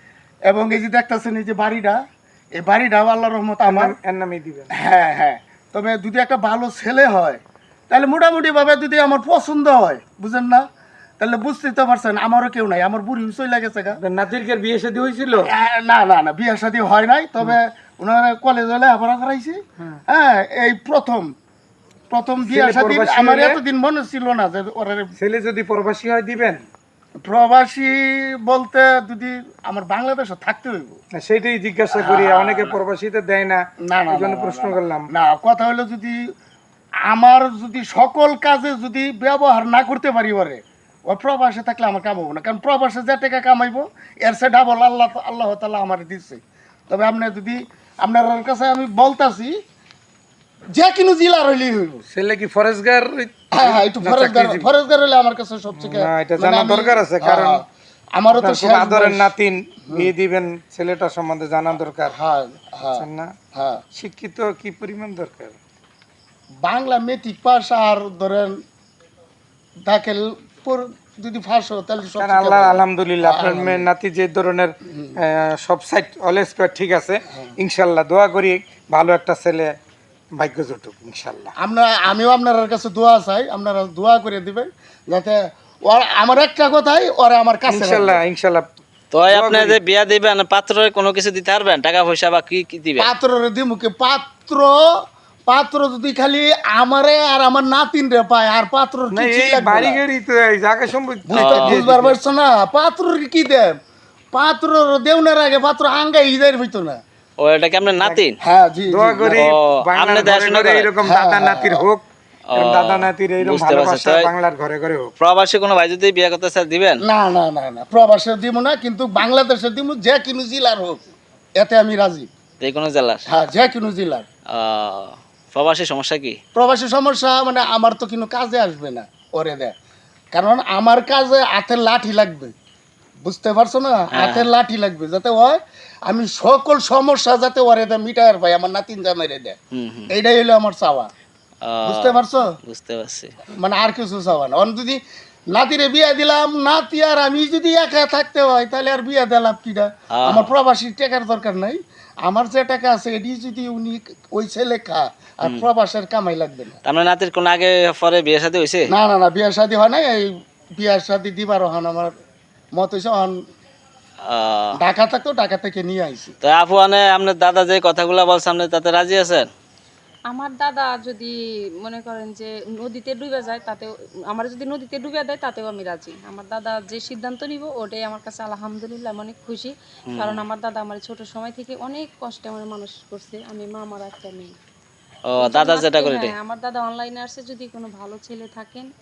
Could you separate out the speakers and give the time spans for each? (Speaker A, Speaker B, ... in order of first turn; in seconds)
Speaker A: 0.5-2.0, 2.5-3.9, 4.7-10.7, 11.2-14.0, 15.4-21.3, 22.1-25.1, 27.2-31.0, 31.9-32.8, 33.8-36.3, 37.0-49.5, 50.7-52.0, 53.5-59.3, 62.1-63.8, 66.6-68.6, 69.8-73.9, 74.9-75.1, 81.6-88.2, 93.0-100.0, 101.3-103.8, 104.3-107.0, 108.4-109.4, 111.0-111.8, 117.0-122.3, 123.3-124.2, 126.5-129.7, 130.3-132.5, 133.2-139.6, 140.1-141.1, 141.8-142.5, 143.6-145.0, 145.5-156.8, 158.9-162.1, 162.7-163.4, 164.8-166.3
Speaker B: 3.7-4.7, 14.0-15.5, 22.4-23.6, 25.2-26.6, 31.1-35.1, 52.1-54.7, 55.7-57.6, 58.3-62.1, 63.0-63.3, 63.9-65.6, 72.2-79.8, 80.3-81.5, 87.7-88.7, 89.3-89.8, 99.1-102.2, 108.9-115.1
Speaker C: 89.1-93.1, 101.3-101.8, 107.4-108.4, 109.3-110.9, 112.5-114.3, 115.2-117.0, 122.6-123.2, 124.5-126.4, 134.1-134.5, 139.7-140.1, 141.6-143.3, 150.1-150.5, 156.8-158.9, 164.2-164.8, 166.4-169.4, 180.1-180.4, 185.3-186.3
Speaker D: 170.3-171.3, 171.8-184.5, 185.4-188.9